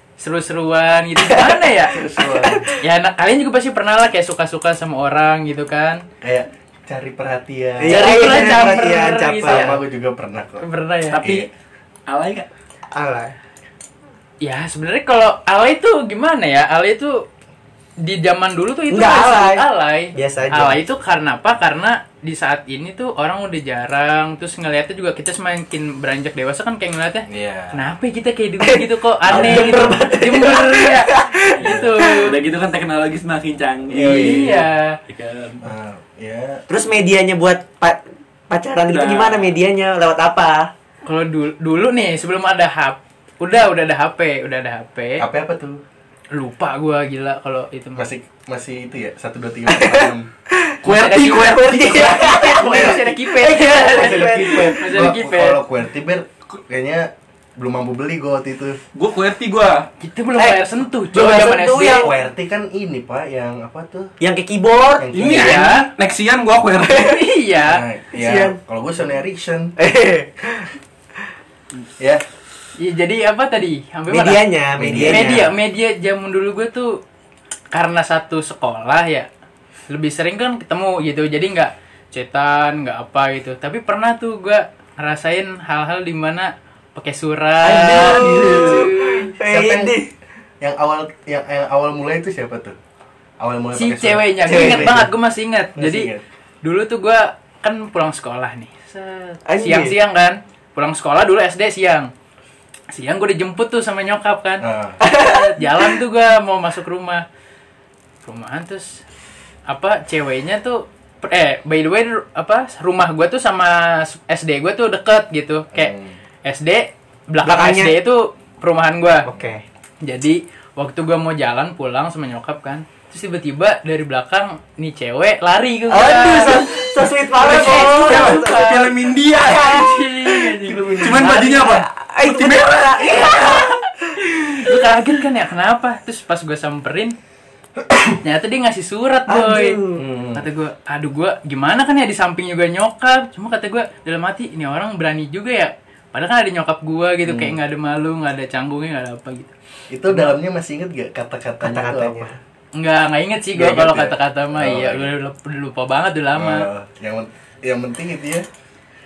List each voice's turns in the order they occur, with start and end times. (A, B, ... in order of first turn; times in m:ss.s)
0:00.2-0:02.0 A
0:01.3-0:02.7 B
0:01.9-0:02.7 C
0:02.8-0:06.0 A
0:06.2-0:08.7 C
0:07.8-0:09.8 B
0:07.9-0:09.8 A
0:09.4-0:10.6 C
0:10.6-0:11.2 A
0:11.1-0:11.5 D
0:11.2-0:11.5 C
0:12.1-0:12.5 D
0:12.9-0:13.3 B
0:14.4-0:17.2 A
0:18.0-0:32.3 A
0:18.9-0:20.8 B
0:27.3-0:27.8 C
0:28.6-0:32.2 B
0:29.3-0:30.0 C
0:31.5-0:35.7 D
0:33.9-0:34.6 C
0:33.9-0:35.0 A
0:35.6-0:36.6 C
0:36.7-0:40.7 B
0:38.9-0:39.5 D
0:41.0-0:45.2 A
0:45.2-0:45.8 C
0:46.3-0:48.1 A
0:48.0-0:50.3 C
0:49.7-0:50.8 B
0:50.8-0:52.6 D
0:50.8-0:55.6 A
0:51.4-0:55.0 B
0:52.6-0:53.0 C
0:53.8-0:58.8 C
0:58.9-0:59.9 D
1:00.0-1:02.1 A
1:00.4-1:02.3 B
1:01.9-1:04.1 C
1:04.2-1:05.1 B
1:05.0-1:05.7 C
1:05.1-1:07.2 D
1:05.2-1:05.9 A
1:06.9-1:07.8 A
1:07.6-1:09.7 C
1:08.1-1:08.6 B
1:09.8-1:10.7 B
1:12.8-1:14.4 A
1:14.1-1:15.5 B
1:14.8-1:15.4 C
1:15.0-1:17.0 A
1:17.7-1:19.3 A
1:19.9-1:29.3 A
1:27.6-1:30.1 B
1:27.7-1:28.9 D
1:29.4-1:30.0 C
1:30.6-1:32.8 C
1:33.4-1:35.1 C
1:33.7-1:36.1 A
1:34.5-1:35.0 B
1:35.8-1:36.2 C
1:36.6-1:42.1 A
1:39.4-1:39.9 B
1:42.9-1:47.2 A
1:44.6-1:45.0 C
1:45.0-1:45.8 B
1:48.2-1:49.0 A
1:49.7-1:55.9 A
1:55.7-1:56.2 C
1:56.4-1:59.2 A
1:57.4-1:58.0 B
1:59.2-1:59.6 B
2:00.0-2:06.8 A
2:05.9-2:09.9 B
2:06.4-2:06.7 D
2:07.3-2:10.0 D
2:07.4-2:08.7 A
2:09.4-2:11.7 A
2:10.6-2:11.2 C
2:11.0-2:13.3 D
2:11.2-2:13.8 B
2:13.1-2:17.1 A
2:18.2-2:19.8 A
2:19.3-2:20.0 B
2:20.0-2:20.5 C
2:20.3-2:29.5 A
2:27.2-2:27.6 C
2:29.9-2:32.4 C
2:31.6-2:32.4 B
2:32.7-2:36.7 A
2:33.5-2:35.1 C
2:36.3-2:38.4 C